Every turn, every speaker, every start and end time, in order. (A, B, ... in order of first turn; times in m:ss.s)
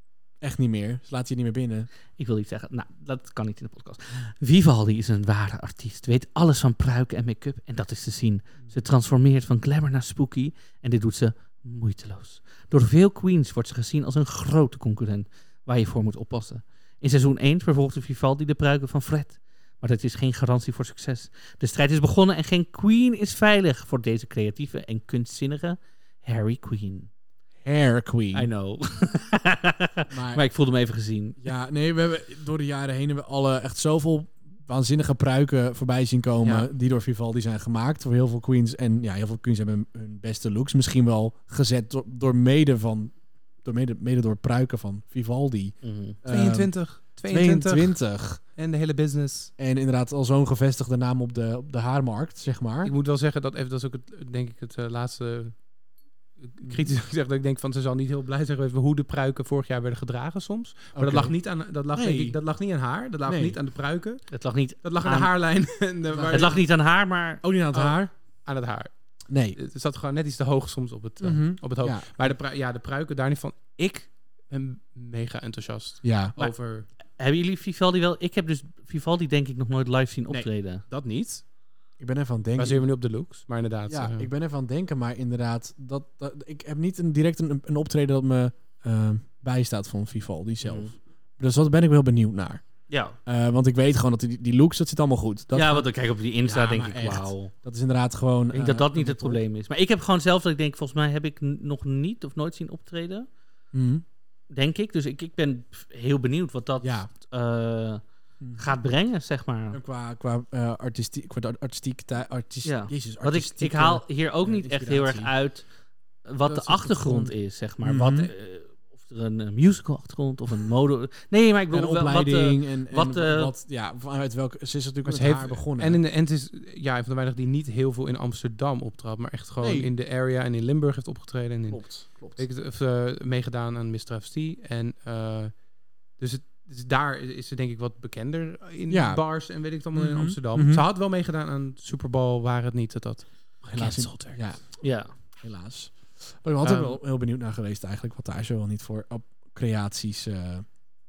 0:00.4-0:01.9 A
0:02.2-0:27.1 B
0:27.6-0:28.5 A
0:28.3-0:31.4 B
0:30.1-0:30.4 A
0:31.4-0:48.4 A
0:45.8-0:46.2 B
0:46.3-0:49.5 C
0:49.6-0:52.9 A
0:52.8-0:55.8 C
0:56.4-1:04.3 C
0:56.6-0:56.9 A
1:00.9-1:02.4 A
1:03.2-1:03.6 A
1:04.3-1:07.4 B
1:04.8-1:06.6 C
1:06.1-1:06.6 A
1:07.4-1:08.1 A
1:07.7-1:16.9 C
1:09.3-1:09.6 A
1:11.2-1:12.3 A
1:16.0-1:16.3 A
1:17.2-1:20.8 B
1:20.3-1:21.4 C
1:22.0-1:22.8 A
1:22.6-1:24.3 C
1:23.9-1:35.9 A
1:30.6-1:30.9 B
1:32.9-1:33.1 B
1:35.5-1:37.5 B
1:36.4-1:39.4 A
1:38.5-1:43.3 B
1:43.7-1:44.0 A
1:44.5-1:48.0 B
1:46.8-1:47.1 A
1:48.4-1:48.7 A
1:48.5-1:49.8 B
1:49.7-1:55.3 A
1:52.6-1:55.6 B
1:56.2-2:03.5 B
1:56.4-1:58.3 A
2:01.7-2:06.0 A
2:05.0-2:23.7 C
2:09.6-2:09.9 A
2:11.7-2:12.4 A
2:18.9-2:20.8 A
2:23.7-2:24.9 A
2:23.7-2:25.1 B
2:25.4-2:30.7 A